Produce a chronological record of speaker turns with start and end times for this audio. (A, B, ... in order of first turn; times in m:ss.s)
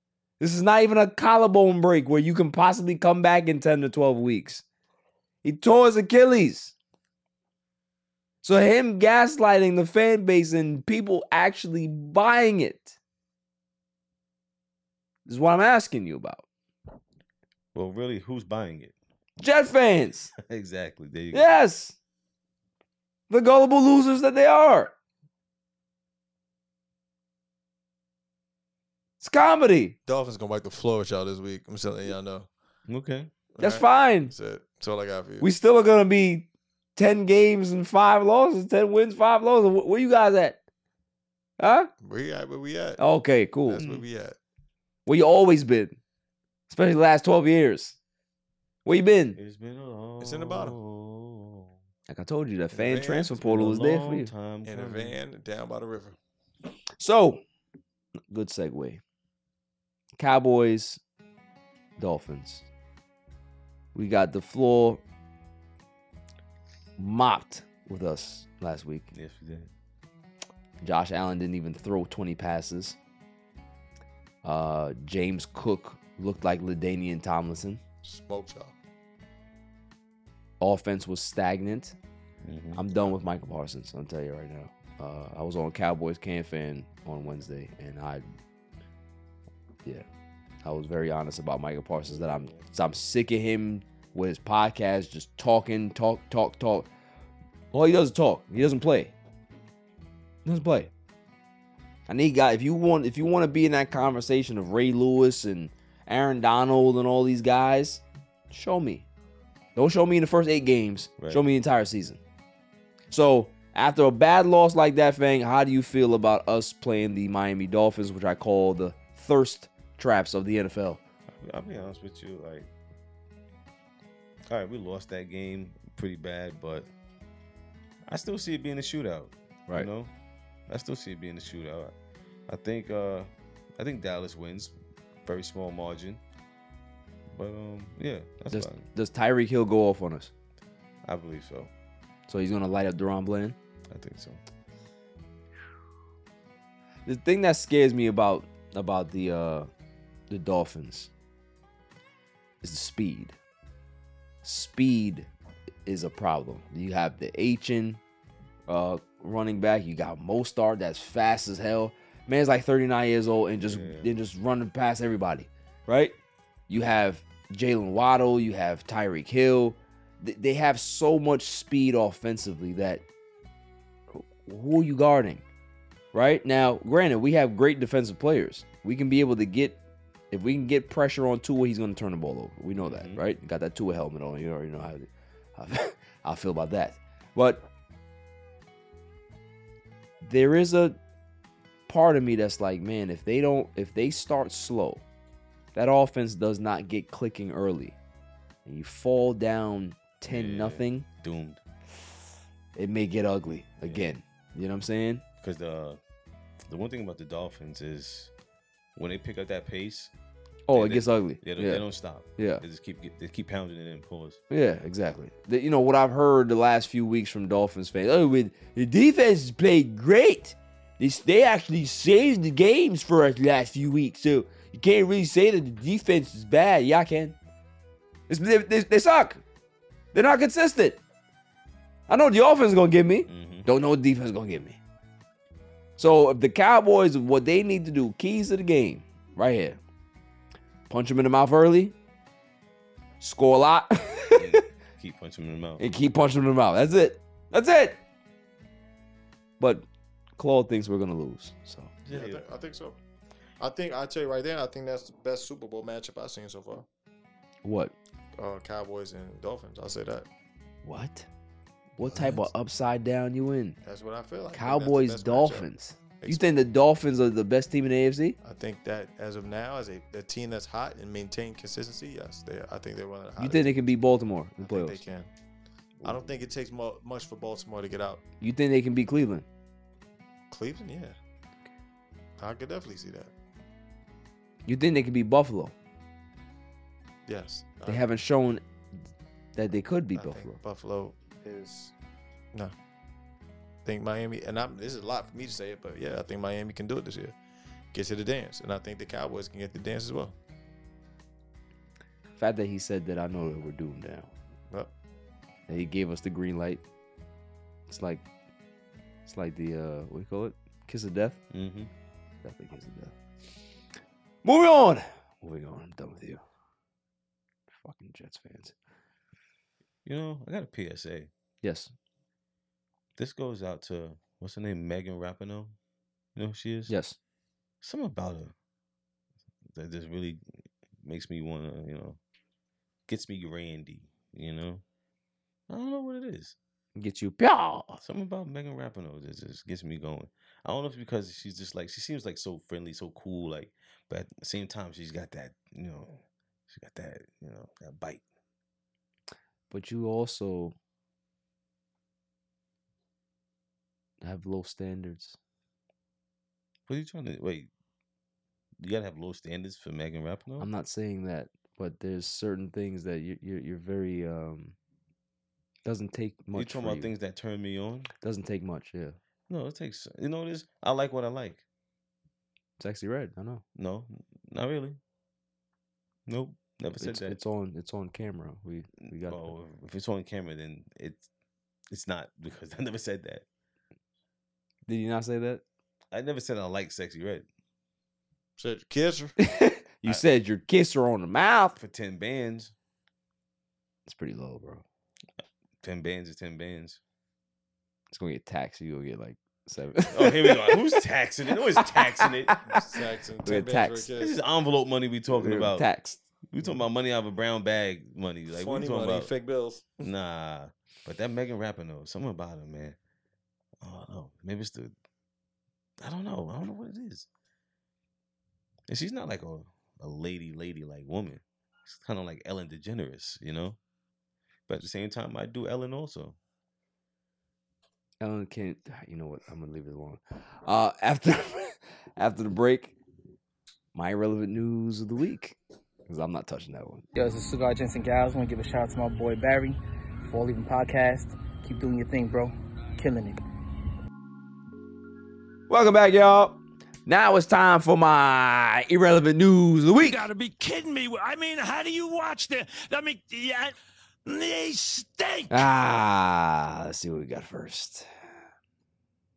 0:00.4-0:04.6 A
0:05.4-0:06.8 A
0:08.4-0:13.0 A
0:15.3-0:16.4 A
0:17.7-0:19.0 B
0:19.4-0:20.3 A
0:20.5-0:21.5 B
0:21.3-0:22.0 A
0:23.3-0:24.9 A
0:29.2-0:30.0 A
0:30.1-0:32.5 C
0:32.9-0:33.3 B
0:33.6-0:35.5 C
0:33.6-0:34.3 A
0:35.4-0:40.6 A
0:41.6-0:41.9 A
0:42.0-0:43.0 C
0:43.0-0:43.8 A
0:43.7-0:44.4 C
0:43.7-0:44.0 B
0:45.1-0:46.0 A
0:46.7-0:48.0 A
0:48.8-0:49.4 A
0:49.4-0:51.8 B
0:50.2-0:50.8 C
0:52.1-0:54.3 A
0:52.7-0:53.4 C
0:53.4-0:55.2 B
0:54.7-0:56.2 C
0:57.0-0:57.4 A
0:58.3-0:59.0 A
1:00.2-1:01.0 A
1:02.0-1:02.7 A
1:03.9-1:05.0 A
1:07.0-1:09.1 A
1:09.1-1:09.7 B
1:10.8-1:13.0 A
1:14.4-1:17.8 A
1:18.0-1:18.7 C
1:20.6-1:22.0 A
1:22.4-1:22.8 B
1:22.8-1:28.2 A
1:30.6-1:36.9 A
1:32.1-1:32.6 B
1:37.7-1:39.1 A
1:40.4-1:40.9 A
1:42.1-1:49.1 A
1:49.8-1:52.2 A
1:51.2-1:51.4 B
1:53.1-2:01.0 A
2:01.3-2:02.7 B
2:04.5-2:06.9 B
2:08.1-2:10.1 B
2:10.7-2:11.9 B
2:12.5-2:14.7 B
2:15.2-2:16.2 B
2:17.3-2:18.9 B
2:18.5-2:20.3 A
2:21.0-2:21.7 B
2:22.3-2:23.6 A
2:23.9-2:24.4 B
2:27.0-2:29.7 A
2:30.3-2:31.1 A
2:32.6-2:33.4 A
2:34.4-2:35.3 A
2:35.9-2:38.0 A
2:38.7-2:46.2 A
2:43.6-2:44.1 B
2:46.7-2:53.0 A
2:54.1-2:55.4 A
2:56.1-2:59.8 A
3:00.3-3:07.7 A
3:02.8-3:03.2 B
3:10.2-3:11.0 A
3:11.9-3:15.0 A
3:15.7-3:18.0 A
3:18.6-3:21.1 A
3:20.3-3:21.6 B
3:22.8-3:25.2 A
3:23.8-3:24.1 B
3:25.4-3:26.0 B
3:26.7-3:28.3 B
3:29.0-3:30.1 B
3:30.7-3:32.6 A
3:30.7-3:34.4 B
3:34.5-3:47.4 A
3:48.3-3:49.4 A
3:50.1-3:51.0 A
3:52.1-3:54.8 A
3:53.3-3:53.7 B
3:56.0-3:59.8 A
4:00.9-4:02.0 A
4:03.2-4:04.6 A
4:04.4-4:05.8 B
4:05.8-4:08.0 A
4:09.6-4:09.9 A
4:10.4-4:11.9 A
4:12.0-4:12.4 B
4:12.1-4:13.0 C
4:13.6-4:16.9 C
4:17.6-4:17.9 A
4:18.4-4:20.3 C
4:20.8-4:21.3 A
4:22.0-4:23.8 A
4:22.0-4:22.4 C
4:23.8-4:25.7 C
4:24.5-4:28.4 A
4:26.2-4:26.5 C
4:28.4-4:33.9 C
4:33.4-4:35.0 A
4:34.6-4:35.3 C
4:36.0-4:36.3 B
4:36.0-4:38.2 C
4:38.4-4:39.5 A
4:40.5-4:41.2 C
4:42.4-4:43.3 C
4:44.7-4:45.7 A
4:47.3-4:48.1 C
4:47.9-4:48.6 A
4:49.6-4:50.6 A
4:50.2-4:51.9 C
4:53.8-4:57.4 C
4:57.9-5:00.4 C
5:02.4-5:04.3 A
5:05.7-5:06.8 A
5:07.9-5:08.2 A
5:09.3-5:11.4 A
5:11.5-5:11.9 B
5:12.4-5:13.2 A
5:14.4-5:16.4 A
5:17.7-5:18.7 A
5:20.0-5:21.3 B
5:21.6-5:21.9 A
5:23.2-5:25.8 B
5:26.4-5:27.0 B
5:26.9-5:27.2 A
5:27.8-5:28.5 B
5:29.7-5:30.4 B
5:31.0-5:32.2 B
5:33.1-5:34.8 B
5:35.7-5:36.6 B
5:37.0-5:38.0 A
5:38.0-5:48.2 B
5:49.7-5:50.8 A
5:54.2-5:55.4 A
5:56.9-5:57.7 B
5:58.8-6:00.7 B
6:00.6-6:04.8 A
6:05.8-6:07.1 A
6:06.5-6:08.1 B
6:08.2-6:09.2 A
6:09.5-6:11.6 B
6:12.8-6:13.6 A
6:13.8-6:15.0 B
6:16.3-6:17.4 B
6:17.0-6:19.5 A
6:19.0-6:21.3 B
6:21.9-6:23.4 B
6:24.9-6:25.6 A
6:26.1-6:27.5 B
6:28.6-6:29.4 C
6:29.4-6:31.8 A
6:31.8-6:32.7 B
6:34.1-6:34.8 A
6:35.8-6:37.0 B
6:38.1-6:41.0 A
6:40.1-6:42.6 B
6:41.8-6:42.8 A
6:42.7-6:44.4 C
6:43.4-6:44.1 A
6:44.2-6:45.9 B
6:45.3-6:46.2 A
6:46.5-6:49.3 B
6:48.5-6:50.1 C
6:50.0-6:53.0 B
6:53.8-6:54.9 B
6:56.0-6:57.3 B
6:58.9-7:03.8 B
7:04.7-7:06.4 B
7:08.2-7:13.0 A
7:13.9-7:17.1 A
7:17.2-7:23.4 D
7:25.7-7:30.3 A
7:30.0-7:35.7 E
7:35.5-7:38.1 A